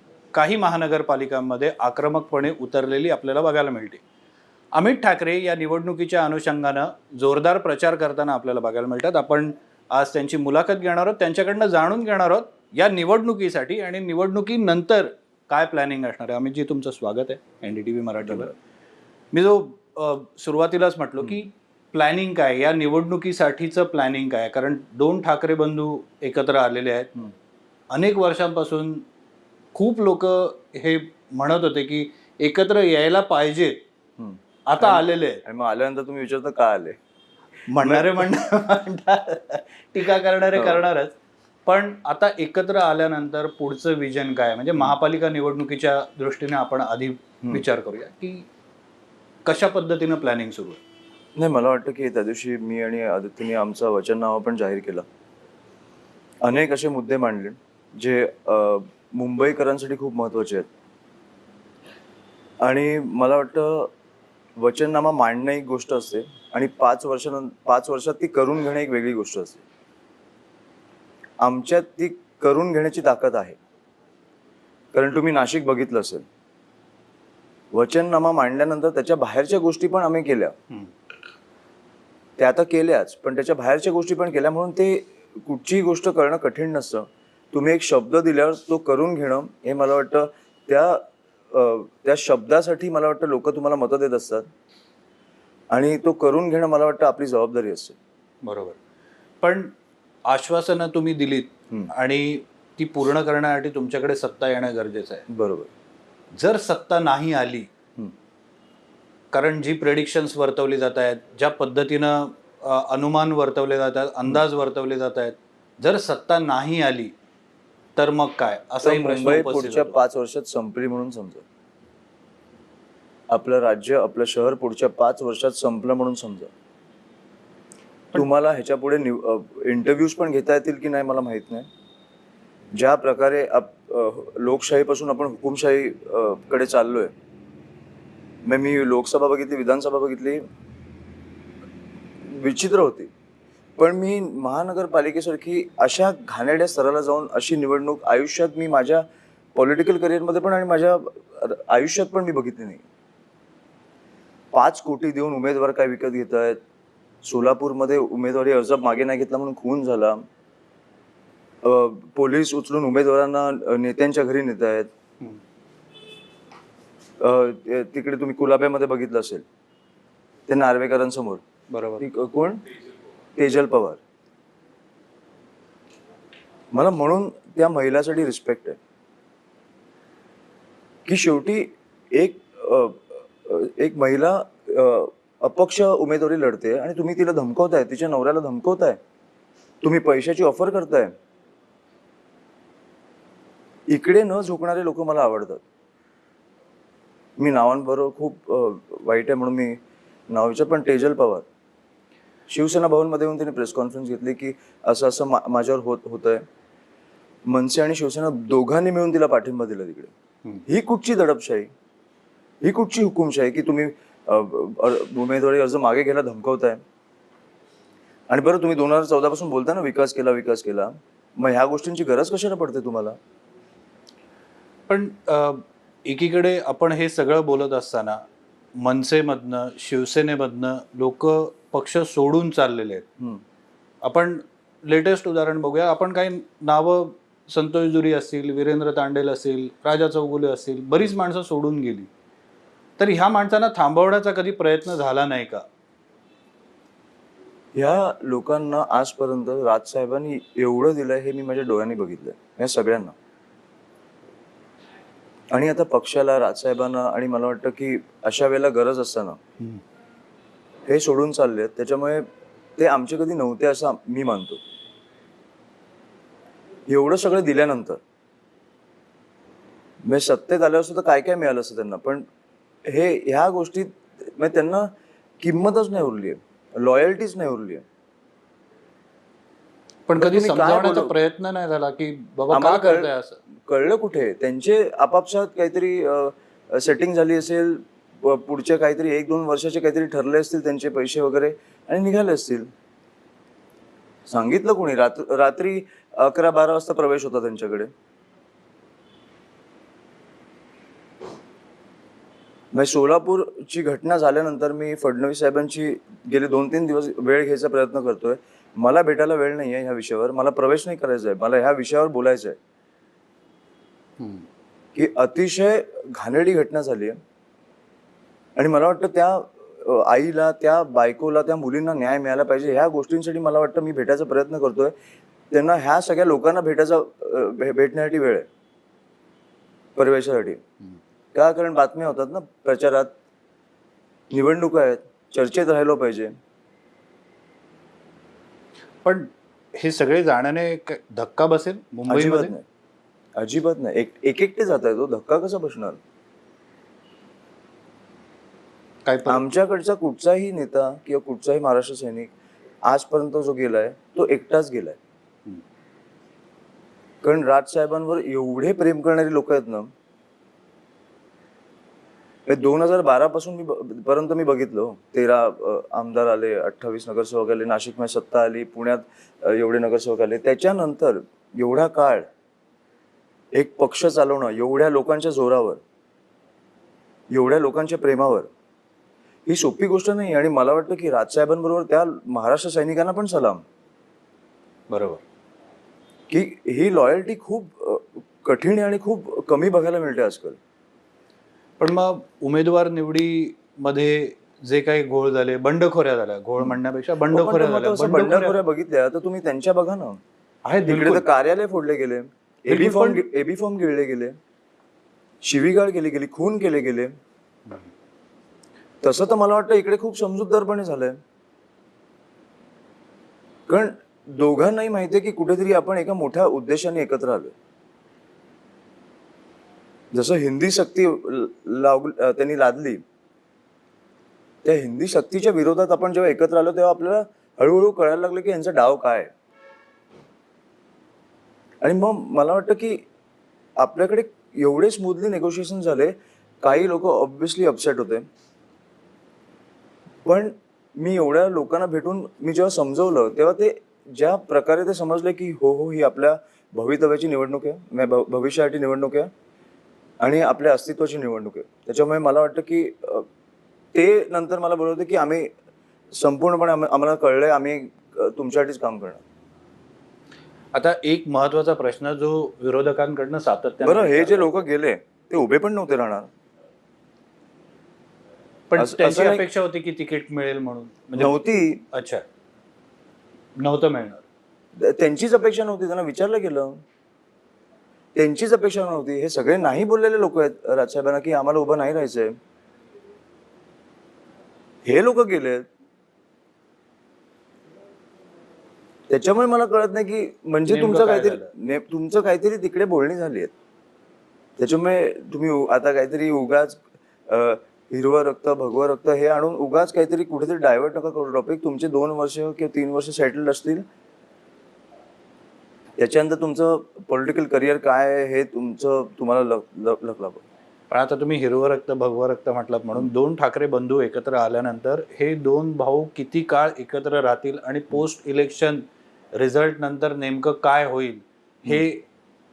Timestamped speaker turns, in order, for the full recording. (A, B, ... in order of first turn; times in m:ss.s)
0:00.3-0:04.0 A
0:04.7-0:18.6 A
0:19.3-0:27.1 A
0:27.9-0:29.1 A
0:29.7-0:33.8 A
0:34.2-0:37.0 B
0:34.7-0:35.4 A
0:37.7-0:48.5 A
0:37.8-0:38.4 B
0:40.6-0:40.8 B
0:49.4-0:50.8 A
0:51.4-0:55.1 B
0:56.4-1:00.7 B
1:02.6-1:03.9 B
1:04.6-1:09.6 B
1:11.4-1:13.6 B
1:14.9-1:16.3 B
1:17.7-1:20.6 B
1:22.4-1:34.5 B
1:35.7-1:38.0 B
1:38.4-1:38.8 A
1:39.4-1:39.7 A
1:40.3-1:45.3 A
1:45.3-1:45.7 B
1:46.4-1:47.7 A
1:49.3-1:57.1 A
1:58.0-2:00.0 A
1:58.8-2:01.4 B
2:03.3-2:06.5 B
2:08.1-2:11.7 B
2:12.7-2:17.1 B
2:18.4-2:20.4 B
2:22.2-2:23.1 B
2:23.8-2:29.0 B
2:29.6-2:32.8 B
2:34.5-2:36.6 B
2:37.2-2:40.2 B
2:41.6-2:44.9 B
2:47.2-2:49.5 B
2:50.5-2:51.4 B
2:51.7-2:52.1 A
2:52.0-2:52.6 B
2:53.4-2:54.0 B
2:56.7-2:58.8 B
3:01.1-3:09.0 B
3:09.8-3:11.1 B
3:13.9-3:15.6 B
3:17.4-3:21.5 B
3:22.5-3:26.4 B
3:27.5-3:30.1 B
3:30.7-3:31.7 B
3:32.6-3:36.8 B
3:38.3-3:43.2 B
3:44.9-3:48.2 A
3:48.8-3:53.1 A
3:54.0-4:02.1 A
4:03.0-4:05.7 A
4:07.8-4:13.2 B
4:15.5-4:19.4 B
4:20.9-4:22.3 B
4:22.8-4:24.6 B
4:26.9-4:28.0 B
4:30.0-4:32.3 B
4:32.8-4:37.8 B
4:40.1-4:43.4 A
4:40.2-4:41.1 B
4:42.5-4:43.1 B
4:43.6-4:52.7 B
4:54.3-4:57.9 B
5:02.7-5:12.6 B
5:14.2-5:14.5 A
5:15.0-5:17.2 B
5:18.6-5:25.0 B
5:25.5-5:28.5 B
5:30.0-5:30.6 B
5:31.3-5:33.1 B
5:34.3-5:36.3 B
5:39.0-5:42.5 A
5:42.1-5:42.6 B
5:43.4-5:46.0 B
5:49.1-5:49.5 A
5:49.3-5:52.3 B
5:52.9-5:55.0 B
5:57.2-5:59.9 B
6:02.5-6:12.3 B
6:13.5-6:15.8 B
6:17.3-6:18.5 B
6:19.5-6:23.6 B
6:24.9-6:25.2 A
6:26.3-6:30.6 B
6:31.8-6:38.6 A
6:36.6-6:40.2 B
6:40.6-6:41.3 A
6:40.9-6:44.4 B
6:42.7-6:43.2 A
6:45.4-6:47.1 B
6:49.0-6:51.2 B
6:53.7-6:57.5 B
7:00.1-7:03.0 B
7:04.6-7:09.3 B
7:11.8-7:13.0 B
7:13.8-7:18.3 B
7:20.2-7:29.3 B
7:30.2-7:33.3 B
7:33.9-7:35.5 B
7:36.1-7:39.2 B
7:40.7-7:44.5 A
7:43.8-7:46.3 B
7:48.7-7:51.4 A
7:48.8-7:49.5 B
7:51.2-7:51.8 B
7:51.9-7:52.2 A
7:53.6-7:54.2 A
7:54.8-7:56.8 B
7:58.2-8:02.4 B
8:04.8-8:05.7 B
8:09.1-8:13.5 B
8:10.7-8:11.5 A
8:14.6-8:23.8 B
8:26.0-8:30.4 B
8:30.9-8:42.0 A